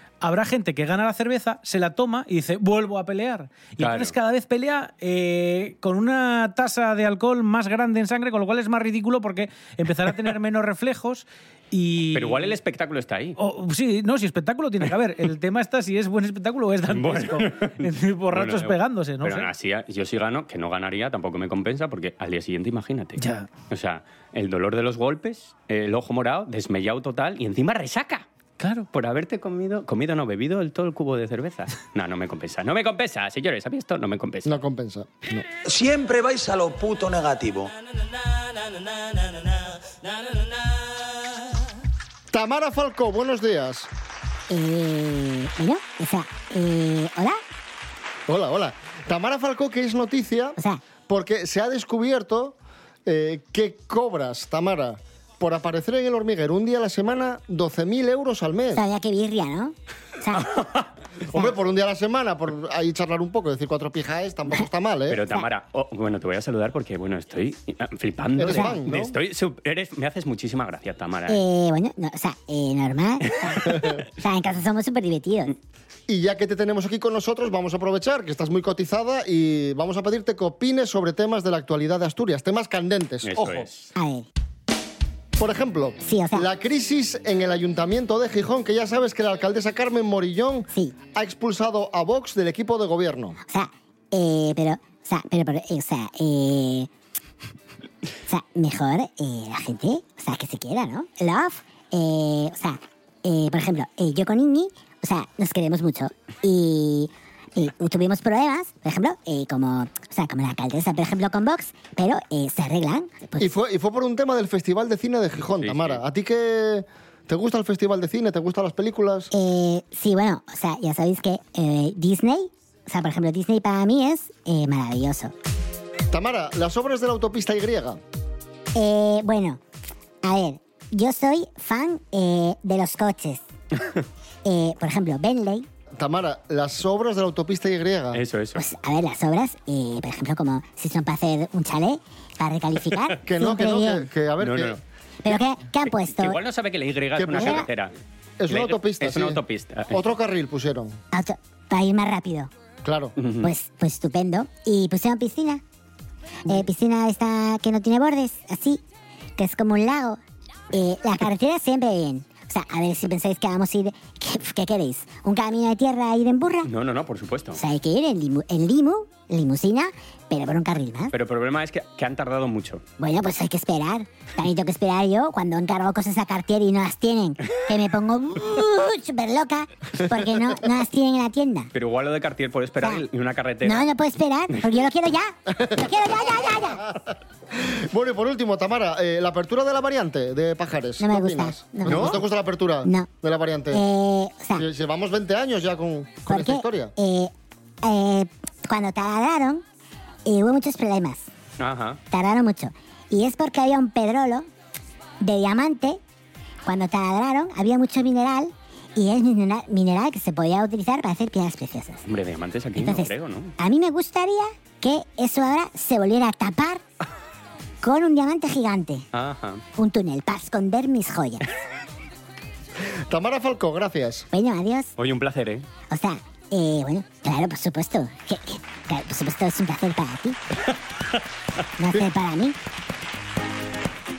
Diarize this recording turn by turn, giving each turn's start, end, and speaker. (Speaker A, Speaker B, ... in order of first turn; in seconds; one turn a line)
Speaker A: 0.2-12.6
Speaker B: 3.8-4.1
Speaker B: 12.1-13.4
Speaker A: 13.4-19.5
Speaker B: 16.9-28.2
Speaker A: 23.2-23.5
Speaker A: 28.6-28.9
Speaker B: 28.9-34.6
Speaker C: 34.4-35.5
Speaker D: 35.6-37.7
Speaker C: 42.3-43.9
Speaker E: 44.5-47.4
Speaker C: 48.3-50.6
Speaker E: 50.6-50.8
Speaker C: 51.1-58.8
Speaker E: 58.7-60.6
Speaker C: 61.3-65.2
Speaker B: 65.1-71.4
Speaker C: 68.4-69.1
Speaker E: 71.3-75.5
Speaker C: 73.7-74.0
Speaker C: 76.1-83.7
Speaker B: 83.2-83.9
Speaker E: 84.0-84.2
Speaker C: 85.4-93.4
Speaker E: 86.0-86.5
Speaker E: 93.5-96.9
Speaker E: 98.3-113.5
Speaker C: 113.4-119.3
Speaker B: 115.6-116.0
Speaker E: 119.3-125.3
Speaker C: 126.1-128.0
Speaker E: 128.7-129.6
Speaker E: 130.2-133.4
Speaker E: 134.4-135.7
Speaker C: 136.0-138.2
Speaker B: 138.1-138.6
Speaker E: 138.6-144.1
Speaker C: 143.2-144.8
Speaker B: 144.4-144.8
Speaker E: 145.2-146.4
Speaker B: 146.0-147.9
Speaker C: 147.2-147.7
Speaker E: 147.3-147.7
Speaker C: 148.4-151.0
Speaker B: 148.5-150.1
Speaker E: 151.1-152.5
Speaker C: 152.8-153.1
Speaker B: 153.2-153.5
Speaker E: 153.4-155.6
Speaker E: 156.5-158.8
Speaker E: 159.4-160.2
Speaker E: 160.7-166.7
Speaker B: 166.6-167.6
Speaker E: 167.5-171.1
Speaker B: 171.1-172.8
Speaker E: 173.0-181.7
Speaker B: 181.7-183.9
Speaker E: 183.6-186.8
Speaker C: 185.5-193.8
Speaker E: 191.0-192.2
Speaker E: 193.7-194.7
Speaker C: 194.5-196.9
Speaker E: 196.3-197.3
Speaker E: 197.8-199.6
Speaker E: 200.2-201.3
Speaker B: 201.6-202.0
Speaker E: 202.1-204.5
Speaker E: 205.2-206.0
Speaker E: 206.6-212.1
Speaker B: 212.1-213.5
Speaker E: 212.8-216.8
Speaker E: 217.8-219.0
Speaker B: 219.1-219.6
Speaker E: 219.8-221.4
Speaker C: 223.1-224.3
Speaker E: 224.3-224.9
Speaker B: 225.0-225.7
Speaker E: 225.9-230.4
Speaker E: 231.8-232.6